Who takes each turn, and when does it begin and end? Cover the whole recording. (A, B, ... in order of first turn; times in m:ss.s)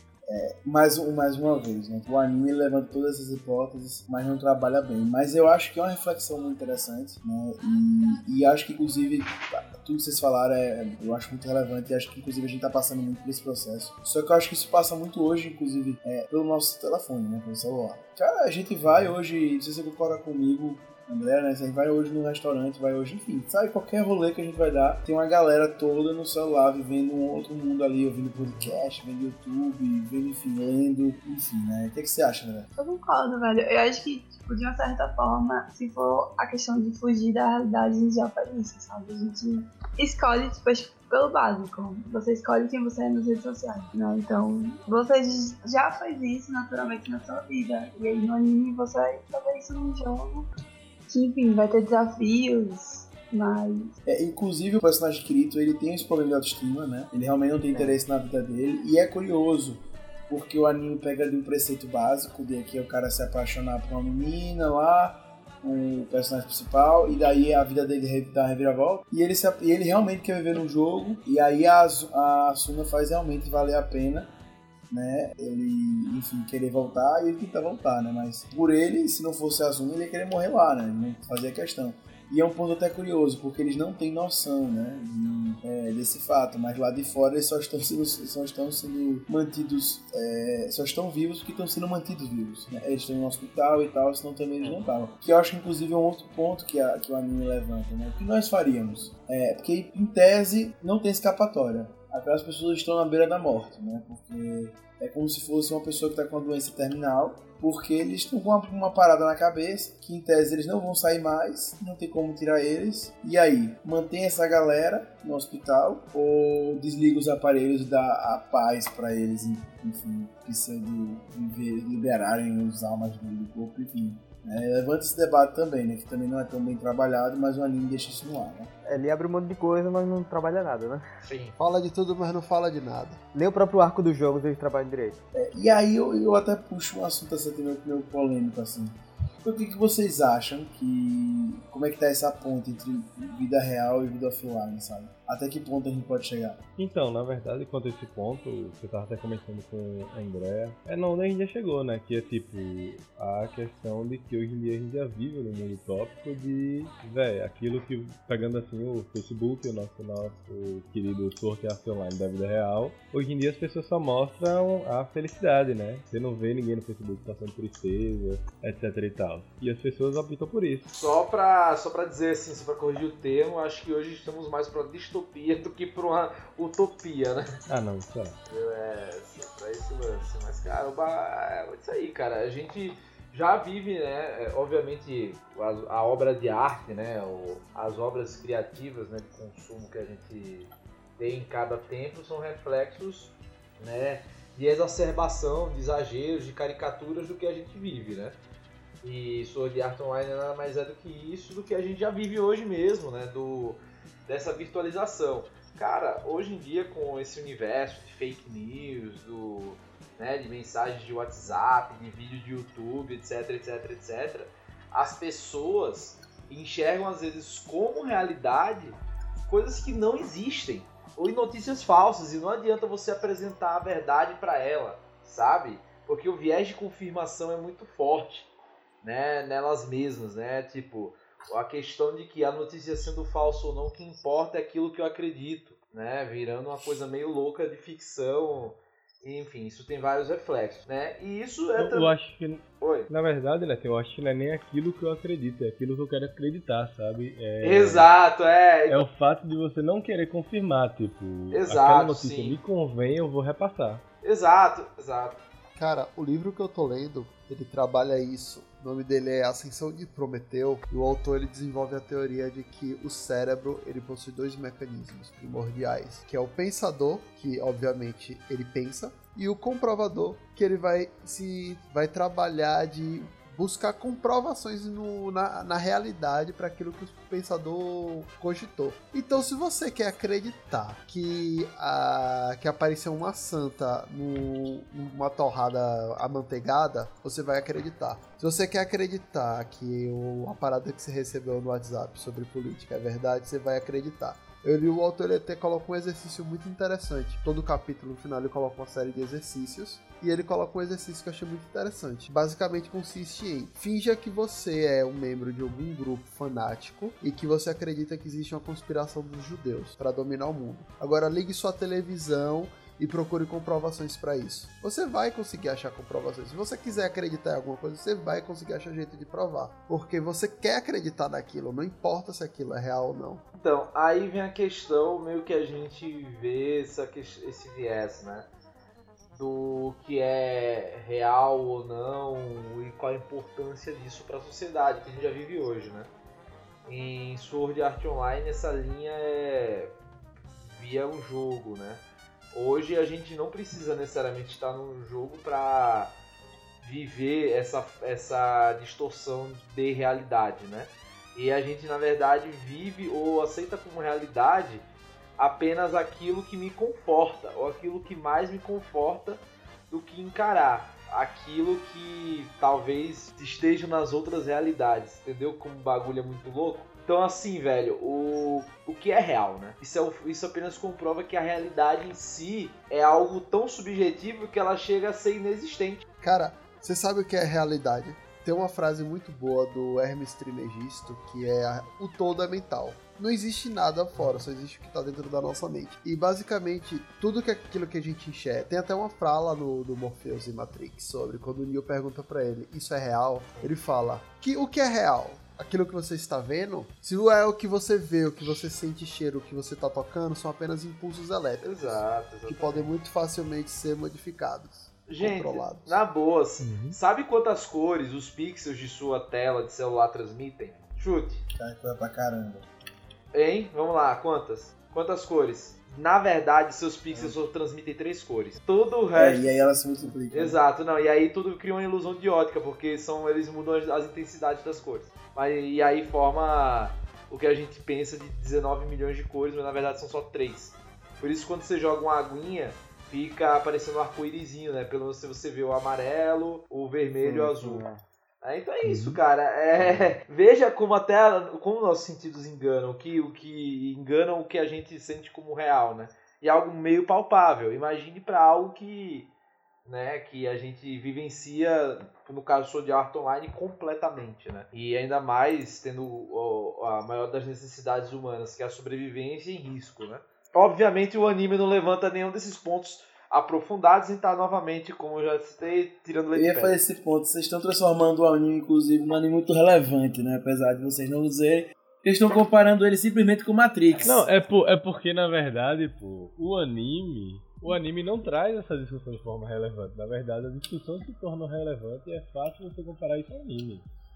0:00.3-0:32.7 A
0:32.8-0:50.5 B
0:51.1-0:53.9 B
0:54.1-1:14.3 A
0:57.7-0:58.0 C
1:14.9-2:08.7 A
1:34.6-1:34.9 C
2:08.9-2:11.0 C
2:11.2-2:11.6 D
2:11.6-2:13.2 E
2:13.3-2:15.2 C
2:15.4-2:26.6 A
2:26.8-2:50.9 F
2:51.0-2:57.6 D
2:57.7-2:58.4 F
2:58.5-3:18.4 D
3:19.0-3:48.5 D
3:49.0-4:02.1 D
4:01.8-4:08.1 F
4:02.8-4:03.1 D
4:07.6-4:09.1 D
4:08.9-4:14.0 F
4:11.5-4:12.6 D
4:14.2-4:15.4 D
4:15.8-5:23.4 E
5:23.5-5:28.5 D
5:29.3-5:36.1 D
5:36.9-5:39.9 D
5:40.6-5:46.1 D
5:46.8-5:54.8 D
5:55.4-6:16.0 D
6:16.2-6:46.0 E
6:41.6-6:42.9 D
6:45.1-6:51.4 D
6:46.6-6:47.0 F
6:51.6-6:52.7 A
6:53.3-6:59.6 D
6:59.2-7:00.6 A
7:00.3-7:17.8 D
7:17.2-7:18.0 C
7:18.4-7:29.3 D
7:18.8-7:19.2 F
7:29.9-7:46.8 D
7:46.4-7:54.3 A
7:54.0-8:03.9 F